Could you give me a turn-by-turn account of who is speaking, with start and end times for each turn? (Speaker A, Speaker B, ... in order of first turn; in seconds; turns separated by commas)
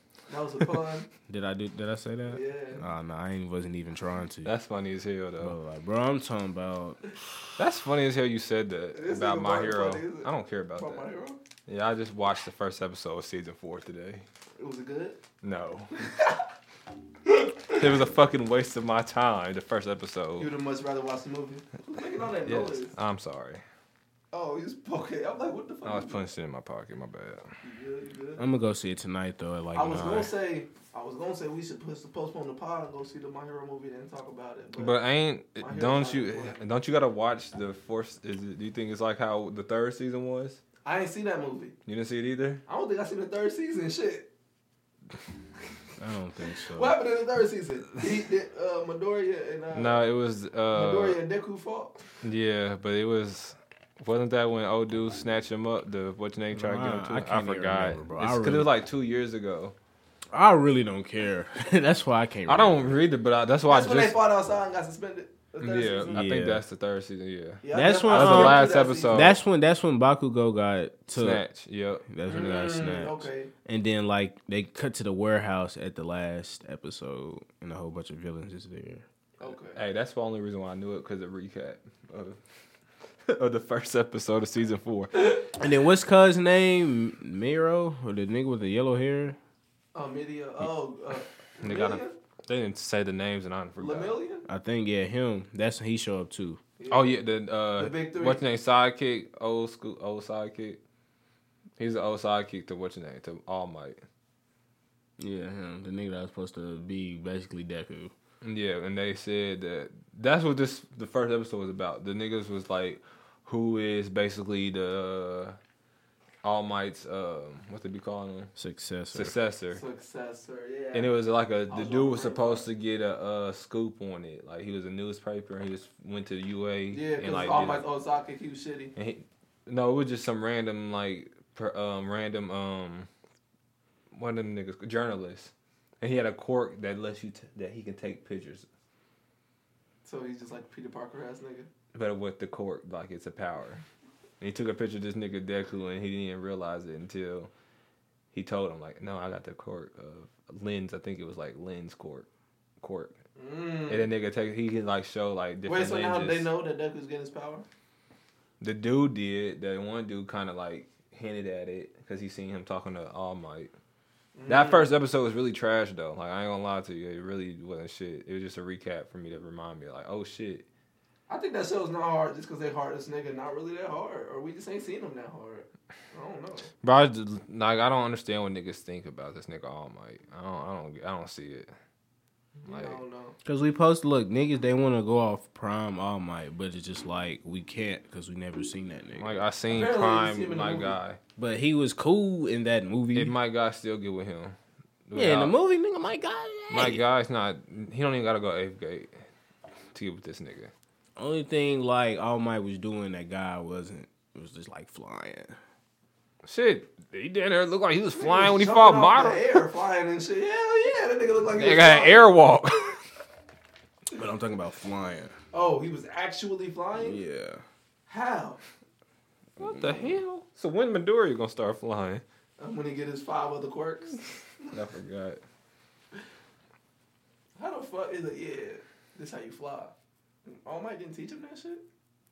Speaker A: 0.3-1.1, Speaker B: 1.3-4.5, Speaker A: 2.3-2.8, Speaker C: 4.4-5.5, Speaker B: 5.4-7.0, Speaker C: 7.6-11.1, Speaker A: 8.9-11.4, Speaker C: 11.7-14.2, Speaker A: 14.6-15.2, Speaker C: 15.4-15.9, Speaker A: 15.9-16.4, Speaker A: 17.3-17.9, Speaker C: 17.7-20.5, Speaker A: 20.4-22.9, Speaker C: 22.4-23.6, Speaker A: 24.3-26.3, Speaker C: 25.8-27.5, Speaker A: 27.6-28.4, Speaker B: 28.4-30.3, Speaker A: 29.7-35.0, Speaker C: 34.8-40.6, Speaker A: 35.6-36.6, Speaker A: 40.8-41.7, Speaker C: 41.9-42.6, Speaker A: 42.7-44.3, Speaker B: 46.0-47.0, Speaker A: 46.6-50.0, Speaker C: 49.7-51.2, Speaker A: 50.7-52.0, Speaker C: 52.2-59.7, Speaker B: 56.5-58.7, Speaker B: 60.3-63.0, Speaker C: 62.5-64.2, Speaker A: 63.7-66.2, Speaker C: 65.6-69.4, Speaker B: 66.1-66.6, Speaker A: 67.6-69.3, Speaker B: 67.7-71.4, Speaker C: 71.1-72.0, Speaker B: 72.1-79.0, Speaker A: 72.3-73.5, Speaker A: 79.4-79.8, Speaker C: 79.7-82.4, Speaker C: 83.3-85.4, Speaker B: 85.6-89.4, Speaker A: 89.9-92.2, Speaker C: 91.6-94.1, Speaker A: 93.8-94.4, Speaker B: 94.5-96.6, Speaker A: 96.8-97.2, Speaker C: 96.9-100.8, Speaker A: 97.7-98.4, Speaker C: 101.8-104.0, Speaker B: 105.2-108.1, Speaker C: 108.4-115.6, Speaker C: 116.4-118.5, Speaker B: 118.5-119.3, Speaker C: 119.1-119.8, Speaker A: 119.7-121.1, Speaker C: 120.9-127.8, Speaker A: 121.7-122.7, Speaker A: 126.9-128.9, Speaker C: 128.9-133.1, Speaker C: 134.1-138.7, Speaker A: 140.0-141.7, Speaker C: 141.9-143.8, Speaker C: 144.4-147.5, Speaker C: 148.3-152.3, Speaker C: 152.8-153.2, Speaker A: 153.3-154.1, Speaker C: 153.9-156.5, Speaker A: 155.7-157.7, Speaker C: 158.6-163.7, Speaker A: 164.3-164.9, Speaker C: 164.5-170.7, Speaker A: 171.3-176.7, Speaker C: 176.8-181.7, Speaker C: 182.6-183.0, Speaker A: 182.7-183.3, Speaker B: 183.4-189.4, Speaker C: 189.2-191.2, Speaker A: 189.7-191.0, Speaker B: 191.4-193.3, Speaker C: 193.1-194.6, Speaker C: 195.1-195.5, Speaker B: 195.1-197.0, Speaker C: 196.7-199.2, Speaker C: 199.9-200.7, Speaker B: 201.2-205.6, Speaker C: 206.4-209.7, Speaker A: 208.1-212.3, Speaker C: 211.5-213.0, Speaker B: 214.1-215.3, Speaker A: 215.5-217.2, Speaker B: 217.0-217.6, Speaker A: 218.1-218.6, Speaker B: 219.6-220.2, Speaker C: 219.6-222.2, Speaker A: 222.6-224.8, Speaker C: 224.7-225.4, Speaker A: 227.6-229.9, Speaker A: 230.4-231.8